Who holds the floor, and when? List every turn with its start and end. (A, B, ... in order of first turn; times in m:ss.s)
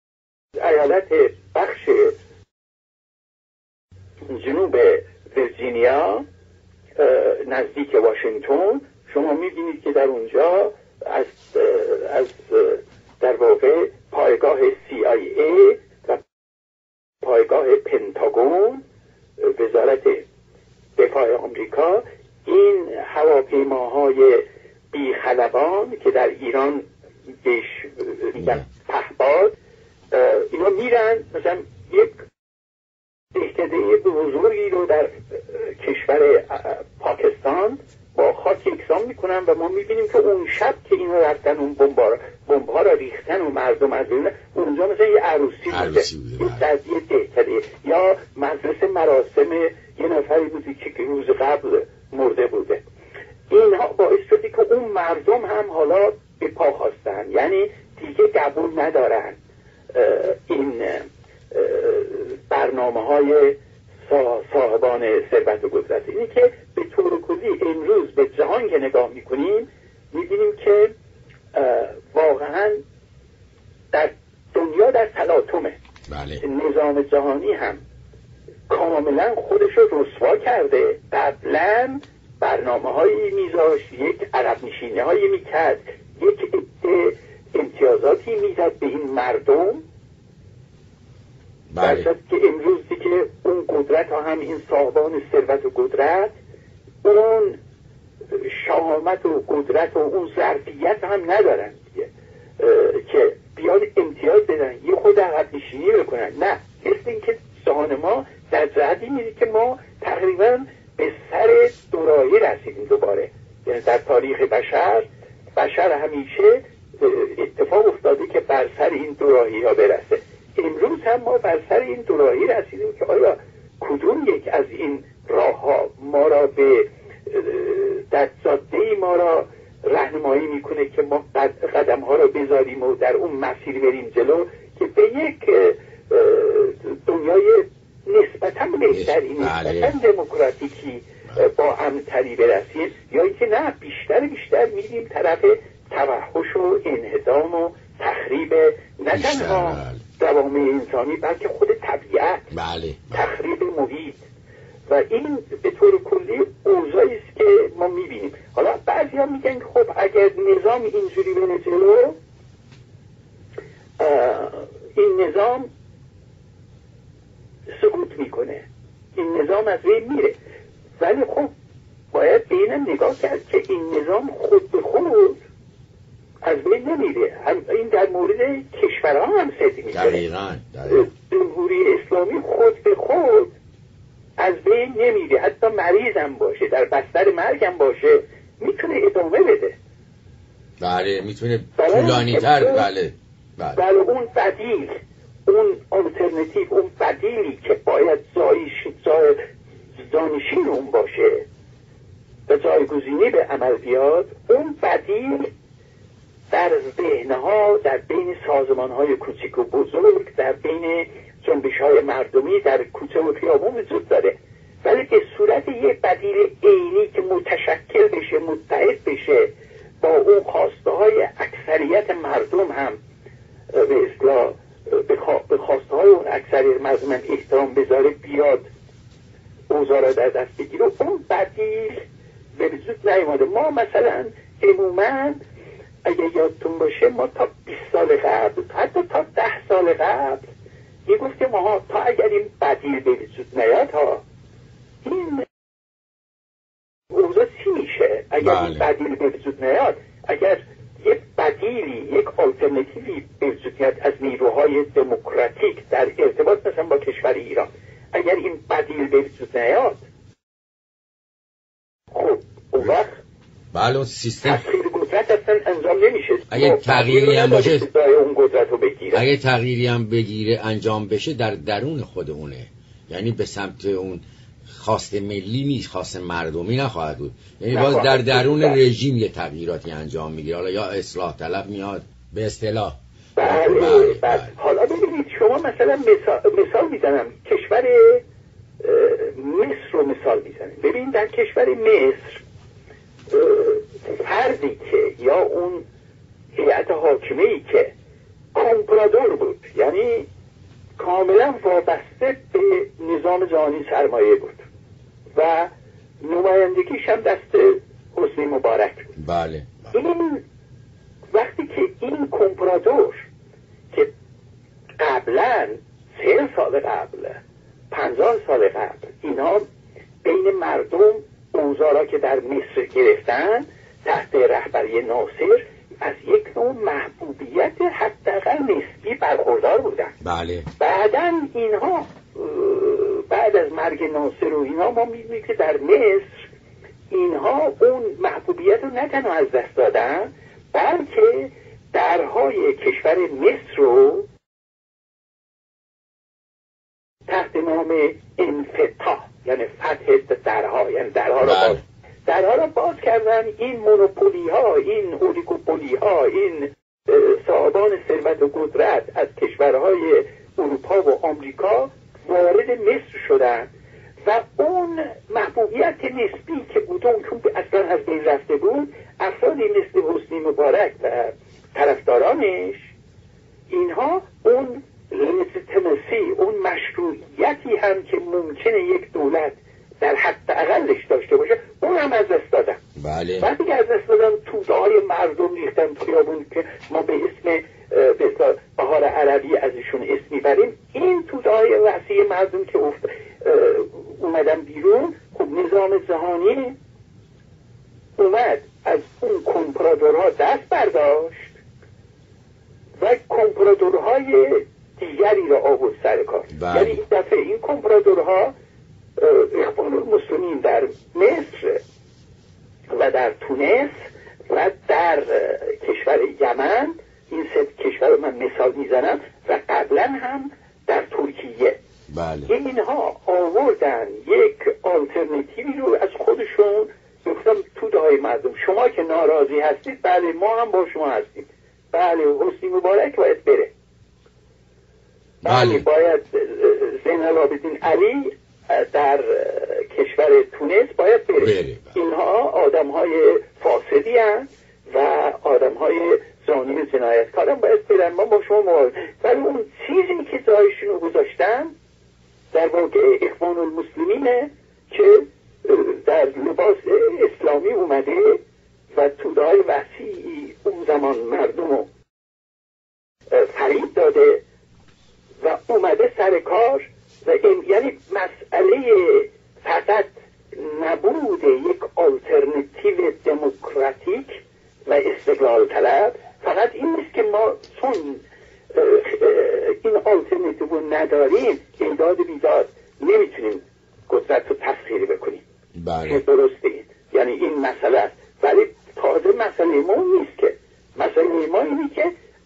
0:00.6-0:02.1 A
0:04.3-0:06.2 A
0:07.0-0:16.2 A
0:17.2-0:18.8 A
0:19.4-0:20.2 A
0:21.0-0:26.9 A
0:27.4-0:29.5 A
0:28.4-0:28.6 B
0:30.1-0:32.2 A
0:33.3-0:52.8 A
0:45.7-0:46.7 B
0:53.5-0:59.4 A
0:59.9-1:10.9 A
1:11.5-1:12.8 A
1:13.9-1:15.8 A
1:16.1-1:16.4 B
1:16.4-1:17.8 A
1:18.7-1:29.8 A
1:31.7-1:32.1 B
1:31.8-1:36.4 A
1:37.0-1:37.6 A
1:38.3-2:32.5 A
2:18.9-2:19.9 B
2:29.1-2:30.0 B
2:32.5-2:33.3 B
2:33.1-2:34.2 A
2:34.9-2:42.2 A
2:44.0-2:45.7 A
2:47.7-2:50.4 A
2:51.0-2:51.5 A
2:52.1-2:55.4 A
2:56.4-3:00.2 A
2:59.9-3:01.1 B
3:00.9-3:03.5 A
3:04.4-3:09.8 A
3:10.8-3:13.8 B
3:11.8-3:12.9 A
3:13.8-3:15.0 A
3:15.5-3:19.4 A
3:20.0-3:21.5 A
3:22.5-3:25.5 A
3:26.5-3:43.0 A
3:43.7-3:48.7 A
3:49.7-3:52.0 A
3:52.6-3:55.4 A
3:56.0-4:00.5 A
4:01.1-4:04.2 A
4:05.0-4:05.5 A
4:07.1-4:20.0 A
4:08.4-4:08.9 B
4:22.1-4:23.2 A
4:23.7-4:24.7 B
4:24.4-4:29.3 A
4:26.5-4:27.9 B
4:29.1-4:44.5 B
4:37.7-4:38.8 A
4:43.4-4:48.2 A
4:48.8-4:52.4 A
4:53.3-4:55.9 A
4:56.5-4:57.9 A
4:58.5-5:00.3 A
5:01.0-5:04.6 A
5:05.4-5:05.7 A
5:06.2-5:09.1 A
5:09.2-5:09.9 B
5:09.9-5:10.4 A
5:11.3-5:13.3 A
5:15.0-5:17.4 A
5:17.9-5:19.6 A
5:20.2-5:30.2 A
5:30.2-5:30.7 B
5:30.8-5:36.5 A
5:37.1-5:44.3 A
5:47.3-6:03.7 A
5:51.4-5:51.8 B
6:04.2-6:12.9 A
6:13.7-6:22.8 A
6:23.0-6:23.5 B
6:23.4-6:36.8 A
6:38.2-6:41.5 A
6:43.0-6:48.5 A
6:46.5-6:47.0 B
6:49.2-6:51.8 A
6:52.9-6:53.9 A
6:54.5-7:01.8 A
7:02.1-7:02.5 B
7:02.5-7:13.7 A
7:15.4-7:15.9 B
7:15.4-7:31.7 A
7:21.4-7:22.0 B
7:32.5-7:41.9 A
7:43.3-7:44.4 A
7:45.4-8:05.4 A
8:05.8-8:06.2 B
8:06.0-8:12.1 A